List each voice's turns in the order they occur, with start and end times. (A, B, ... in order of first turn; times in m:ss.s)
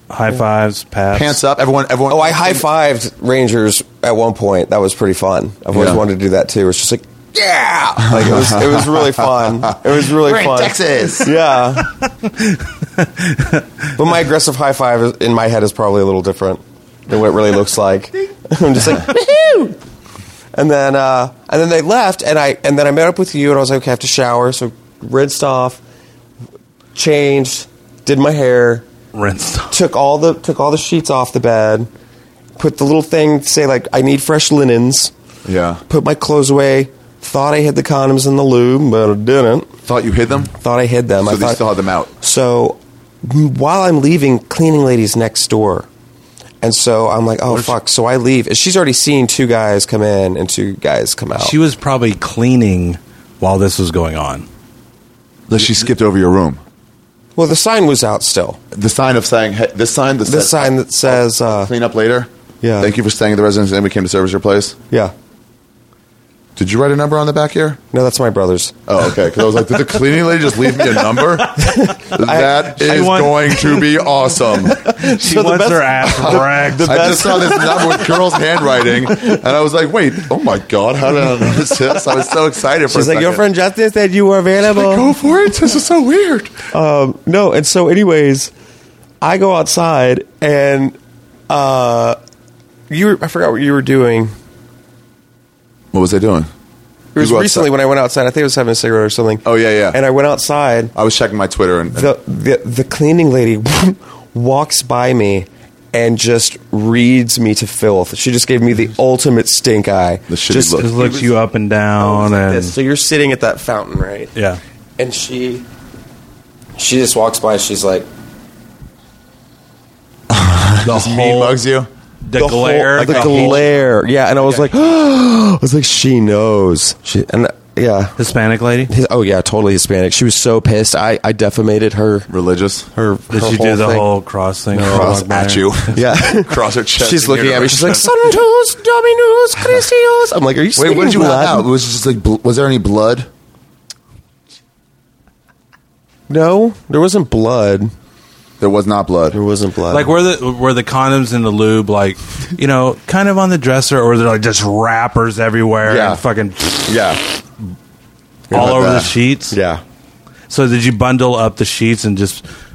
0:00.1-0:01.4 A
0:01.1-0:02.6 B
0:02.1-0:11.9 C
0:05.7-0:06.0 B
0:08.0-0:11.3 B
0:12.2-0:13.6 A
0:14.0-0:19.8 C
0:20.5-0:25.8 C
0:26.9-0:28.9 C
0:29.1-0:29.7 A
0:29.7-0:31.9 C
0:32.6-0:35.1 C
0:35.4-0:35.8 B
0:35.9-0:39.7 C
0:39.9-0:40.5 B
0:40.6-0:41.6 C
0:41.2-0:42.1 B
0:42.2-0:45.9 C
0:46.6-0:51.6 C
0:47.5-0:47.8 A
0:51.4-0:54.4 A
0:55.5-0:56.6 B
0:57.4-0:58.6 C
0:58.7-1:04.8 B
1:00.2-1:01.7 C
1:02.6-1:02.9 C
1:06.6-1:07.8 B
1:07.9-1:08.7 C
1:08.9-1:14.8 B
1:11.6-1:12.8 C
1:12.8-1:13.8 A
1:14.5-1:18.4 C
1:14.9-1:17.5 A
1:16.0-1:23.4 B
1:22.9-1:25.1 C
1:24.6-1:26.6 B
1:26.7-1:28.5 C
1:29.2-1:31.0 C
1:31.5-1:32.2 C
1:32.9-1:34.3 C
1:35.9-1:36.5 B
1:37.1-1:40.9 C
1:37.2-1:37.7 B
1:39.4-1:40.0 B
1:40.9-1:42.1 B
1:41.9-1:51.3 C
1:50.3-1:50.9 B
1:50.8-1:52.7 A
1:52.0-1:54.3 C
1:54.3-1:54.6 A
1:55.0-1:55.6 C
1:56.8-1:58.1 C
2:00.3-2:01.9 B
2:00.8-2:01.6 A
2:02.2-2:03.7 A
2:02.3-2:08.2 C
2:03.0-2:03.6 B
2:04.4-2:04.7 A
2:08.2-2:08.9 A
2:08.9-2:12.3 C
2:12.3-2:12.9 B
2:12.9-2:14.1 C
2:13.3-2:16.0 A
2:14.7-2:15.2 C
2:14.8-2:18.1 B
2:15.9-2:21.6 C
2:20.8-2:23.3 B
2:26.3-2:27.9 C
2:28.6-2:29.4 B
2:29.3-2:30.1 C
2:29.9-2:37.0 A
2:35.9-2:36.2 C
2:36.9-2:37.2 C
2:38.5-2:39.1 B
2:38.5-2:39.6 A
2:39.5-2:39.8 C
2:40.5-2:42.4 A